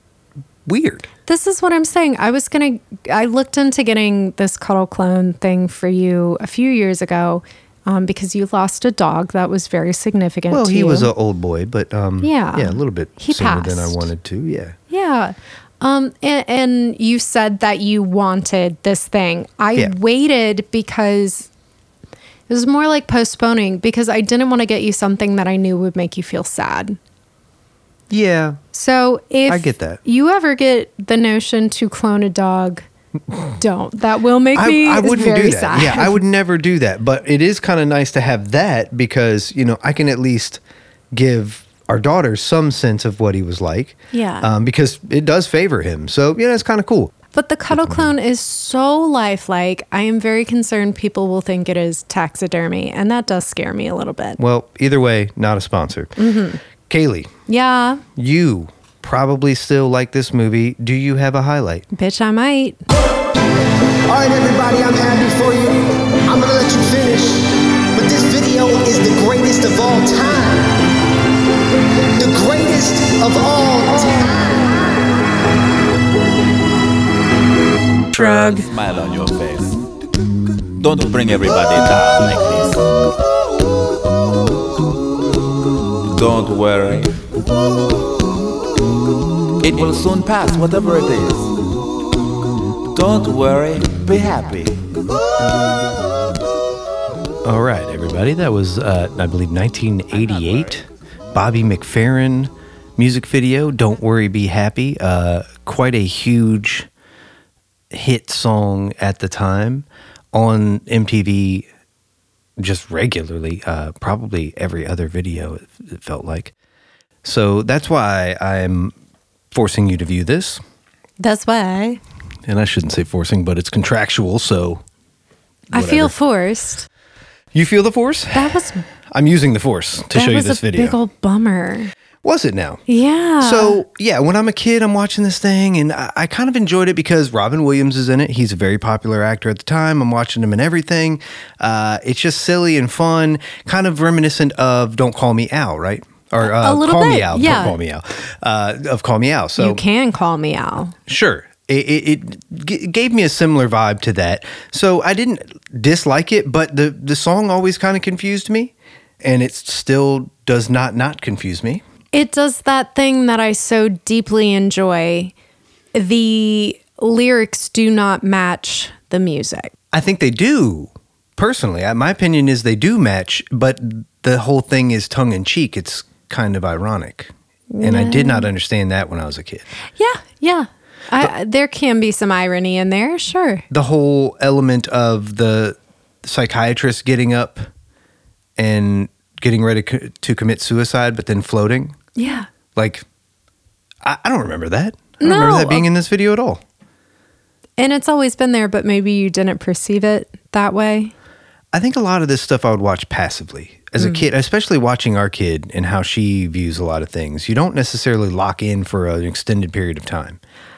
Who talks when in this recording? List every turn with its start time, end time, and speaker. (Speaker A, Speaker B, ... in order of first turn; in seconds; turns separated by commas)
Speaker A: 0.7-1.1, Speaker B: 1.3-11.1, Speaker A: 10.5-14.8, Speaker B: 12.2-14.1, Speaker B: 14.9-21.5, Speaker B: 22.5-27.0, Speaker A: 28.1-28.6, Speaker B: 28.7-32.8, Speaker A: 29.5-30.0, Speaker B: 33.5-36.2, Speaker A: 34.5-40.6, Speaker A: 41.1-47.1, Speaker B: 44.1-44.5, Speaker B: 47.3-54.4, Speaker A: 47.7-48.1, Speaker A: 54.4-56.2, Speaker B: 56.2-56.6, Speaker A: 56.9-57.3, Speaker B: 57.5-58.0, Speaker A: 58.2-61.9, Speaker B: 61.9-62.8, Speaker C: 64.1-70.7, Speaker C: 72.2-75.1, Speaker D: 78.1-79.9, Speaker A: 78.2-78.6, Speaker D: 80.8-82.8, Speaker D: 86.1-87.2, Speaker D: 89.6-91.6, Speaker D: 92.9-94.8, Speaker A: 97.4-106.9, Speaker A: 107.9-111.6, Speaker A: 112.6-116.5, Speaker A: 117.2-118.9, Speaker A: 119.5-120.6, Speaker B: 121.2-122.0, Speaker A: 122.5-124.8, Speaker B: 125.7-126.9, Speaker A: 125.7-126.1, Speaker A: 127.5-130.9, Speaker B: 128.3-128.8, Speaker B: 130.1-131.9, Speaker A: 132.2-132.8, Speaker B: 132.9-133.8, Speaker A: 133.4-149.8, Speaker B: 146.4-147.8, Speaker B: 149.6-150.9, Speaker A: 151.1-161.8, Speaker B: 162.1-165.3, Speaker B: 165.9-169.7, Speaker A: 169.9-179.7, Speaker B: 177.7-178.5, Speaker B: 180.0-183.6, Speaker A: 183.7-187.7, Speaker A: 188.6-192.0, Speaker B: 192.2-192.5, Speaker A: 192.7-193.0, Speaker A: 194.0-196.6, Speaker B: 195.2-195.9, Speaker B: 197.8-201.1, Speaker A: 201.7-210.4